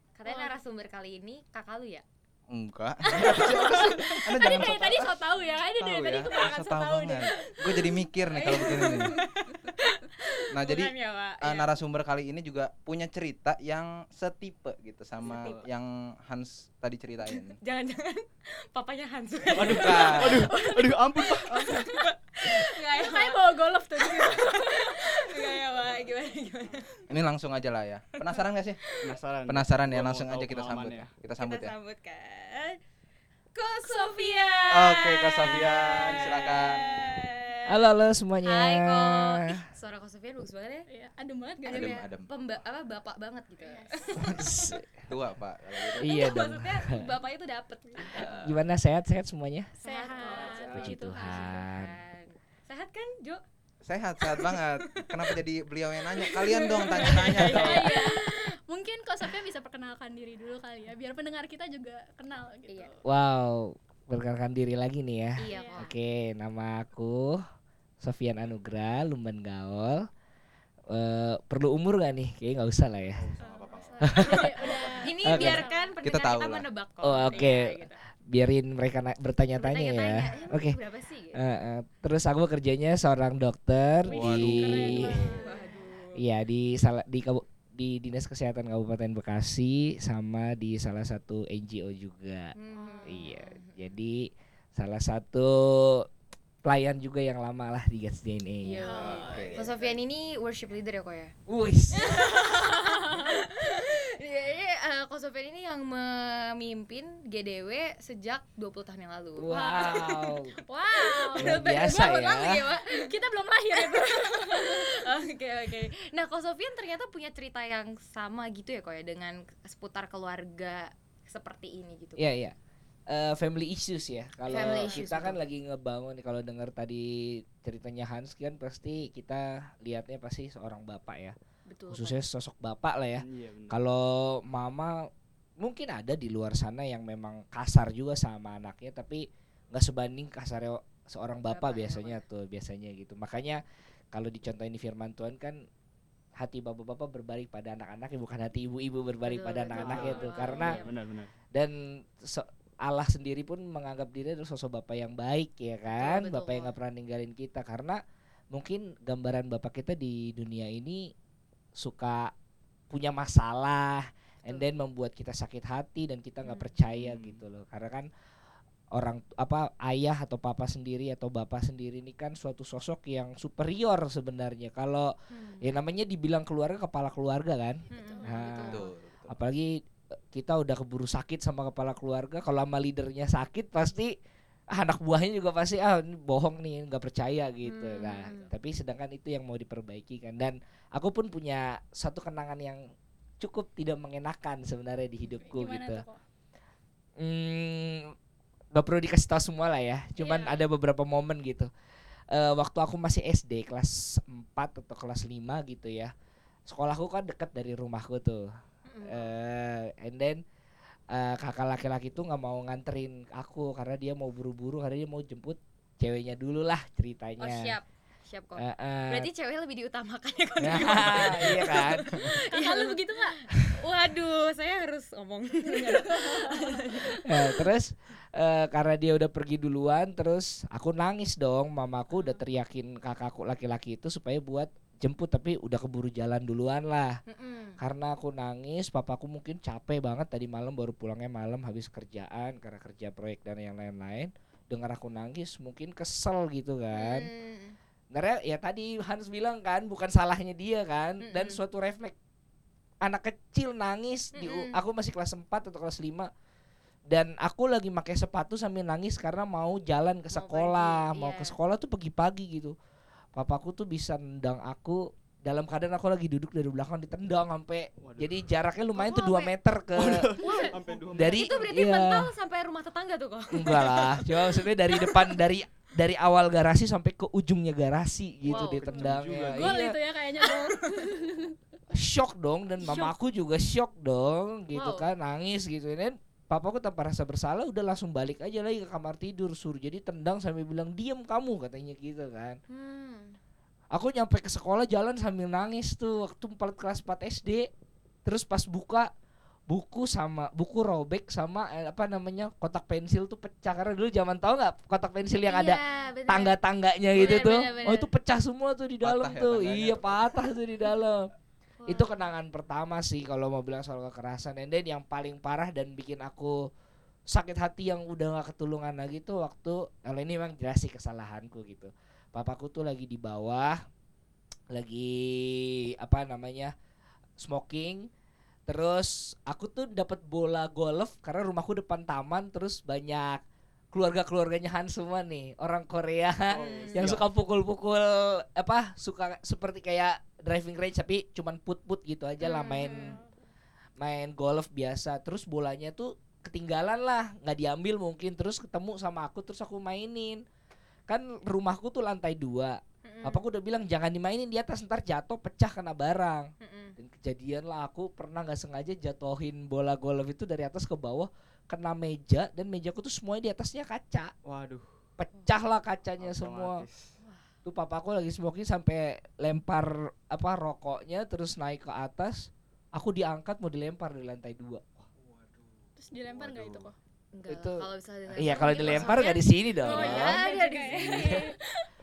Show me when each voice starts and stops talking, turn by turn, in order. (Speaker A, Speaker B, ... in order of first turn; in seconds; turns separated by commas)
Speaker A: 0.1-2.0, Speaker B: 0.2-0.6, Speaker C: 2.5-9.2, Speaker A: 3.0-4.7, Speaker B: 3.1-7.7, Speaker A: 7.7-11.8, Speaker B: 8.4-9.7, Speaker C: 10.5-17.6, Speaker A: 15.2-15.7, Speaker A: 17.3-27.0, Speaker D: 19.5-21.8, Speaker C: 19.7-20.5, Speaker B: 22.5-25.6, Speaker C: 27.1-28.8, Speaker A: 28.3-28.9, Speaker D: 29.0-31.1, Speaker C: 29.5-31.7, Speaker A: 31.4-32.8, Speaker A: 33.5-37.7, Speaker C: 34.7-36.8, Speaker E: 37.7-39.6, Speaker A: 38.4-40.9, Speaker B: 40.9-42.0, Speaker A: 41.6-44.7, Speaker C: 41.7-42.3, Speaker B: 43.6-44.8, Speaker E: 44.2-45.0, Speaker C: 45.1-46.2, Speaker A: 45.8-48.4, Speaker E: 46.0-47.1, Speaker C: 48.1-48.5, Speaker E: 48.2-49.7, Speaker A: 49.8-53.4, Speaker B: 49.8-51.7, Speaker E: 50.6-51.9, Speaker C: 53.8-58.0, Speaker A: 54.2-55.4, Speaker A: 56.1-58.5, Speaker B: 57.0-63.0, Speaker A: 62.7-62.9, Speaker E: 63.0-67.4, Speaker A: 65.4-65.9, Speaker B: 65.5-65.8, Speaker E: 68.0-70.1, Speaker E: 70.9-73.3, Speaker C: 73.1-76.7, Speaker B: 73.4-76.0, Speaker E: 74.0-74.5, Speaker A: 74.1-78.0, Speaker E: 75.3-75.6, Speaker E: 77.0-80.8, Speaker A: 79.5-81.4, Speaker E: 81.3-85.3, Speaker C: 84.1-85.4, Speaker B: 84.1-85.8, Speaker A: 84.9-86.2, Speaker E: 86.2-92.5, Speaker A: 92.5-93.9, Speaker B: 92.7-93.3, Speaker E: 93.0-96.1, Speaker E: 96.6-99.0, Speaker A: 98.6-101.3, Speaker B: 98.7-99.6, Speaker C: 98.9-100.0, Speaker E: 101.5-102.2, Speaker A: 101.9-113.1, Speaker B: 102.1-103.4, Speaker E: 109.4-110.5, Speaker B: 109.5-110.1, Speaker B: 110.7-115.0, Speaker E: 111.4-112.6, Speaker A: 113.7-122.2, Speaker E: 122.2-122.5, Speaker E: 123.1-131.3, Speaker A: 124.5-125.4, Speaker B: 124.7-125.0, Speaker A: 131.7-132.2, Speaker E: 131.9-135.1, Speaker D: 133.2-133.8, Speaker E: 135.6-145.6, Speaker A: 141.5-142.2, Speaker E: 146.4-150.8, Speaker A: 149.2-150.9, Speaker D: 149.7-151.3, Speaker B: 149.8-150.8, Speaker E: 151.5-158.0, Speaker A: 156.0-156.8, Speaker E: 158.5-161.1, Speaker E: 161.8-162.3, Speaker E: 162.9-168.1, Speaker A: 164.4-164.7, Speaker A: 166.4-166.8, Speaker D: 167.0-167.4, Speaker E: 168.9-184.2, Speaker A: 175.3-175.7, Speaker B: 177.9-178.8, Speaker A: 177.9-178.9, Speaker C: 178.6-179.4, Speaker E: 184.7-192.8, Speaker A: 187.6-188.5, Speaker E: 193.4-196.0, Speaker B: 195.2-196.2, Speaker E: 197.2-198.1, Speaker E: 198.7-201.7, Speaker B: 200.2-200.6, Speaker E: 202.3-206.1, Speaker E: 206.7-208.5, Speaker A: 208.9-209.3, Speaker E: 209.0-210.4, Speaker E: 211.1-217.8, Speaker A: 217.4-227.6, Speaker E: 218.6-219.3, Speaker E: 220.6-222.4, Speaker B: 222.2-223.3, Speaker B: 225.6-227.0, Speaker E: 227.2-237.2, Speaker A: 232.1-232.4, Speaker A: 237.3-237.8, Speaker E: 237.8-247.3, Speaker A: 246.9-247.8, Speaker E: 248.1-252.1, Speaker A: 251.2-251.6, Speaker E: 253.0-256.3, Speaker A: 254.3-254.8, Speaker E: 257.1-262.7, Speaker A: 260.3-261.6, Speaker E: 263.3-270.3, Speaker D: 268.0-268.5, Speaker A: 268.9-269.5, Speaker D: 269.9-271.4, Speaker A: 270.4-275.3, Speaker B: 270.4-270.7, Speaker E: 271.1-272.2, Speaker E: 273.5-279.9, Speaker A: 278.4-279.0, Speaker B: 278.9-281.5, Speaker D: 278.9-279.8, Speaker A: 280.4-281.1, Speaker E: 281.9-292.6, Speaker A: 282.8-283.1, Speaker A: 284.7-285.1, Speaker A: 292.7-293.4, Speaker E: 293.9-297.7, Speaker E: 298.2-299.1, Speaker E: 299.7-311.3, Speaker A: 305.4-306.6, Speaker A: 307.1-308.1, Speaker C: 309.0-310.5, Speaker A: 311.8-312.1, Speaker E: 311.9-316.7, Speaker E: 317.3-323.9, Speaker E: 324.7-326.7, Speaker E: 327.4-328.1, Speaker E: 328.7-343.2, Speaker D: 336.5-337.2, Speaker A: 336.5-337.1, Speaker A: 342.4-343.2, Speaker E: 344.0-350.4, Speaker E: 351.1-364.3, Speaker A: 353.0-353.4, Speaker A: 356.6-357.0, Speaker D: 364.4-364.9, Speaker E: 365.2-366.8, Speaker D: 366.2-367.1, Speaker A: 367.2-367.5, Speaker E: 367.6-375.1, Speaker C: 375.2-376.9, Speaker B: 375.9-376.9, Speaker A: 377.3-381.5, Speaker E: 377.5-377.8, Speaker E: 378.3-381.5, Speaker B: 379.8-381.9